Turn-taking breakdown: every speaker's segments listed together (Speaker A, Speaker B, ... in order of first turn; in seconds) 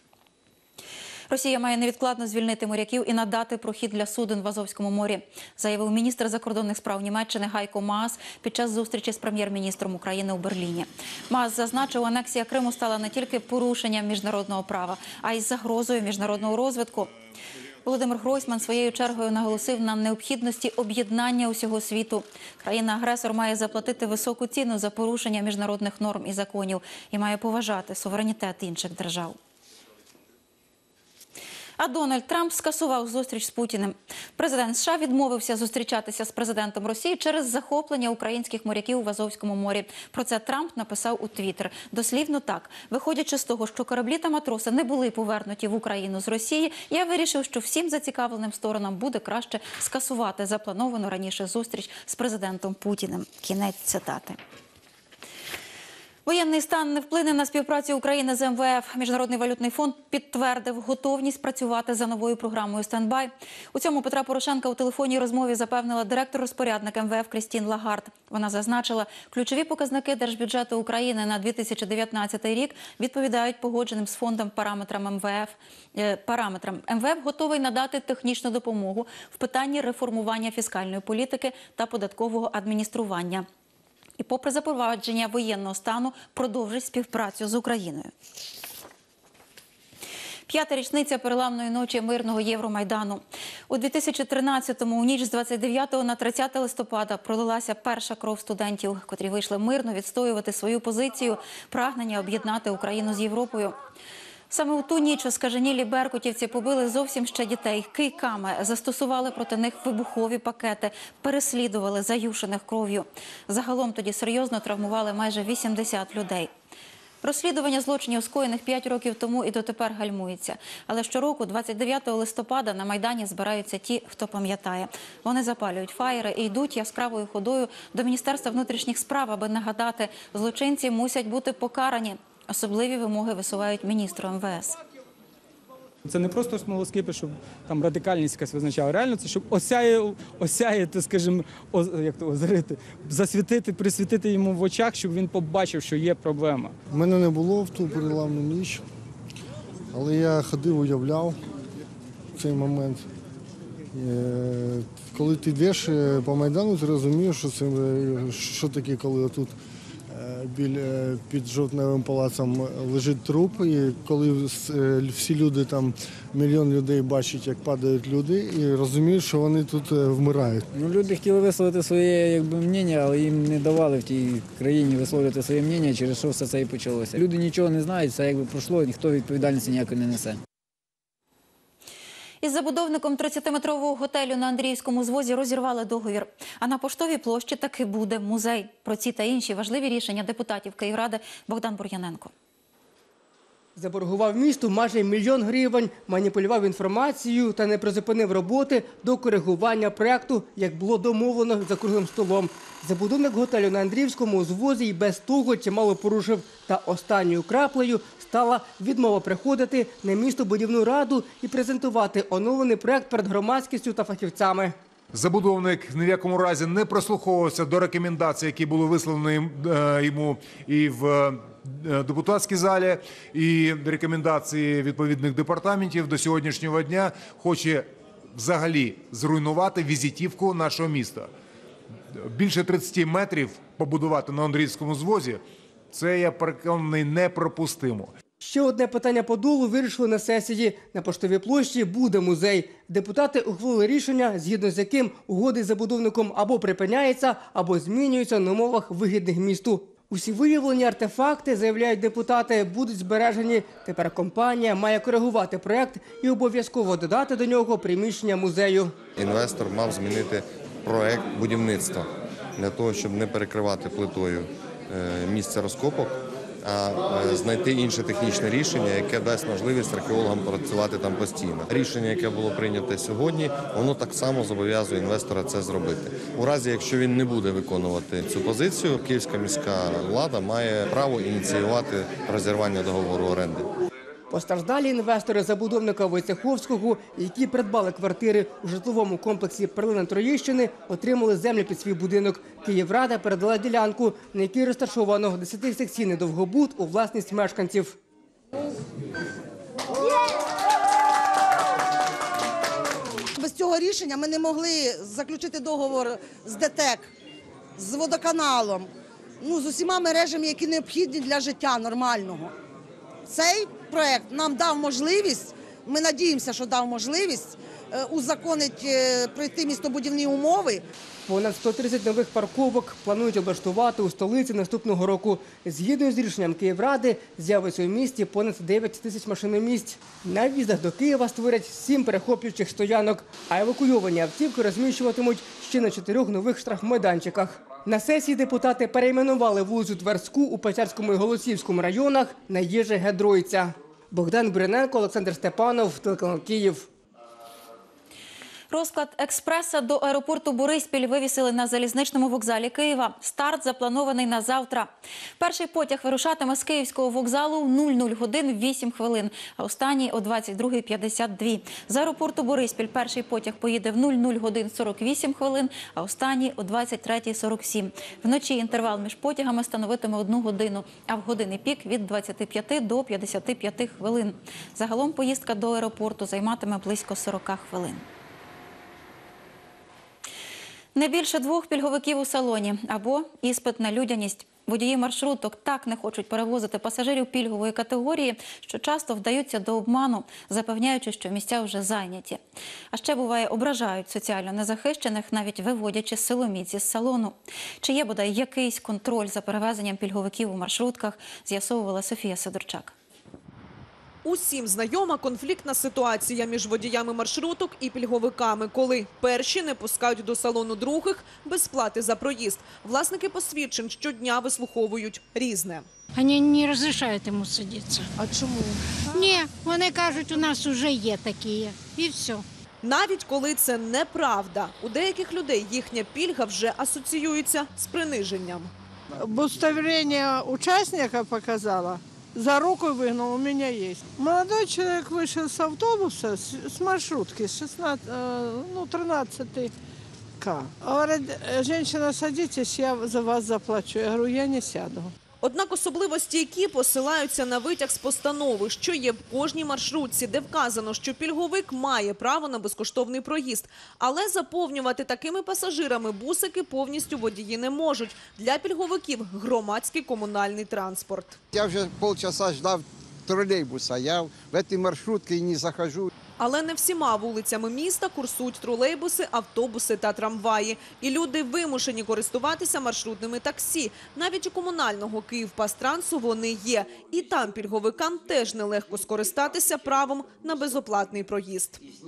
Speaker A: 1.3-17.1, 17.8-29.4, 31.8-54.4, 56.3-83.5, 84.2-88.1, 90.5-103.8, 104.5-116.5, 117.2-134.8, 182.4-192.3, 348.7-378.1, 380.9-392.4, 392.9-402.9
Speaker B: 136.1-146.8
Speaker C: 146.9-148.8, 149.9-151.4, 152.4-153.1, 153.9-159.6, 160.1-170.7
Speaker D: 170.7-180.4
Speaker E: 193.8-214.8, 238.4-259.0, 284.3-298.0, 321.3-346.9
Speaker F: 215.1-231.3, 232.1-238.1
Speaker G: 259.1-283.7
Speaker H: 303.4-307.1, 307.8-308.9, 309.4-312.5, 313.3-320.8
Speaker I: 404.2-415.9, 422.8-428.7, 445.4-461.4, 466.4-481.8
Speaker J: 416.1-418.1, 419.1-422.4
Speaker K: 418.3-418.7, 429.2-439.7, 440.4-445.1
Speaker L: 461.5-466.1